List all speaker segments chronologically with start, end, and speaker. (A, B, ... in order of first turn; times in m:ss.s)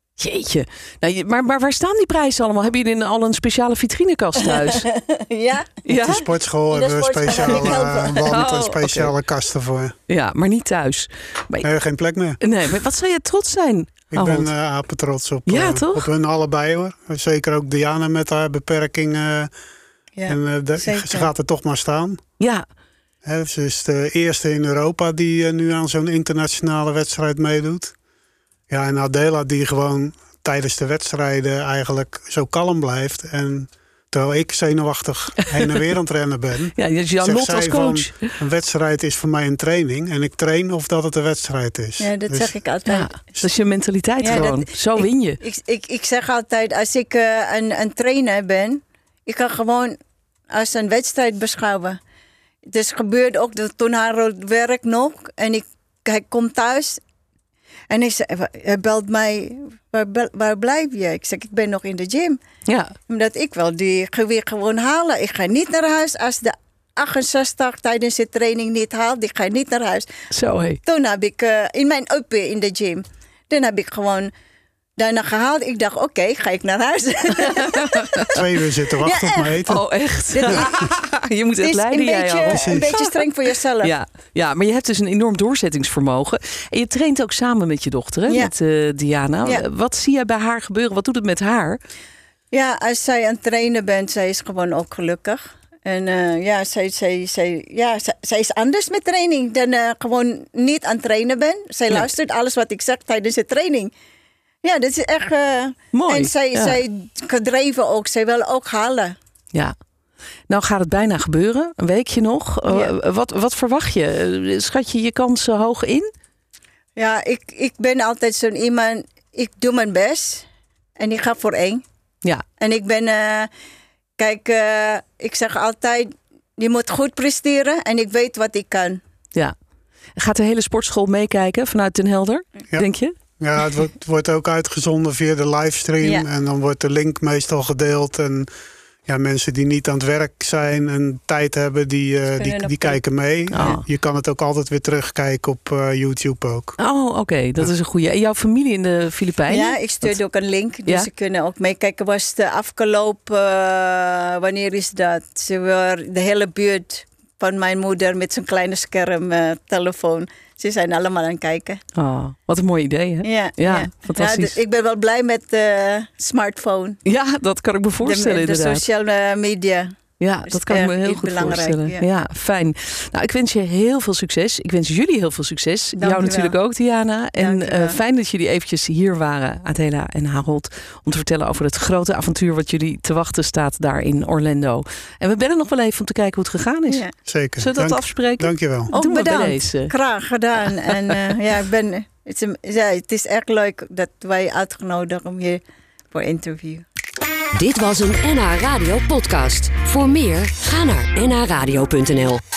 0:00.2-0:04.9 A
0:04.6-0:05.8 B
0:05.8-0:06.2 A
0:05.9-0:09.9 C
0:06.7-0:08.3 B
0:07.3-0:09.1 A
0:10.1-0:11.7 A
0:11.6-0:12.4 C
0:12.4-0:14.5 A
0:14.1-0:19.5 C
0:15.5-0:16.1 A
0:20.1-0:21.3 B
0:20.3-0:22.2 C
0:23.2-0:27.9 C
0:28.7-0:42.5 C
0:36.8-0:38.2 A
0:42.0-0:43.1 B
0:42.9-0:45.4 A
0:44.2-0:50.0 B
0:50.5-0:52.0 B
0:52.7-0:57.0 B
0:57.9-1:02.4 B
1:02.7-1:02.9 A
1:03.1-1:10.1 B
1:10.3-1:10.8 A
1:10.8-1:14.3 B
1:15.0-1:18.3 B
1:17.4-1:18.3 A
1:18.3-1:19.8 C
1:19.0-1:19.6 B
1:19.7-1:23.1 A
1:20.3-1:20.8 B
1:21.6-1:23.9 B
1:22.5-1:23.0 C
1:23.8-1:31.8 A
1:32.5-1:43.9 B
1:44.6-1:49.1 B
1:45.9-1:46.8 A
1:50.5-1:56.1 A
1:52.7-1:52.9 B
1:57.0-2:00.4 B
2:01.0-2:01.8 B
2:02.6-2:03.5 B
2:04.2-2:09.0 B
2:10.2-2:13.1 A
2:13.4-2:18.5 C
2:16.0-2:16.3 B
2:19.1-2:26.8 C
2:22.3-2:23.0 B
2:23.5-2:23.8 A
2:26.8-2:30.2 A
2:29.5-2:41.8 B
2:42.0-2:44.6 A
2:43.2-2:47.0 B
2:47.0-2:48.8 A
2:48.0-2:49.9 B
2:50.2-3:07.0 A
2:50.5-2:52.0 B
2:56.0-2:56.6 B
2:57.4-2:58.0 B
3:07.2-3:08.9 C
3:07.6-3:09.9 A
3:08.9-3:16.8 B
3:17.5-3:22.4 D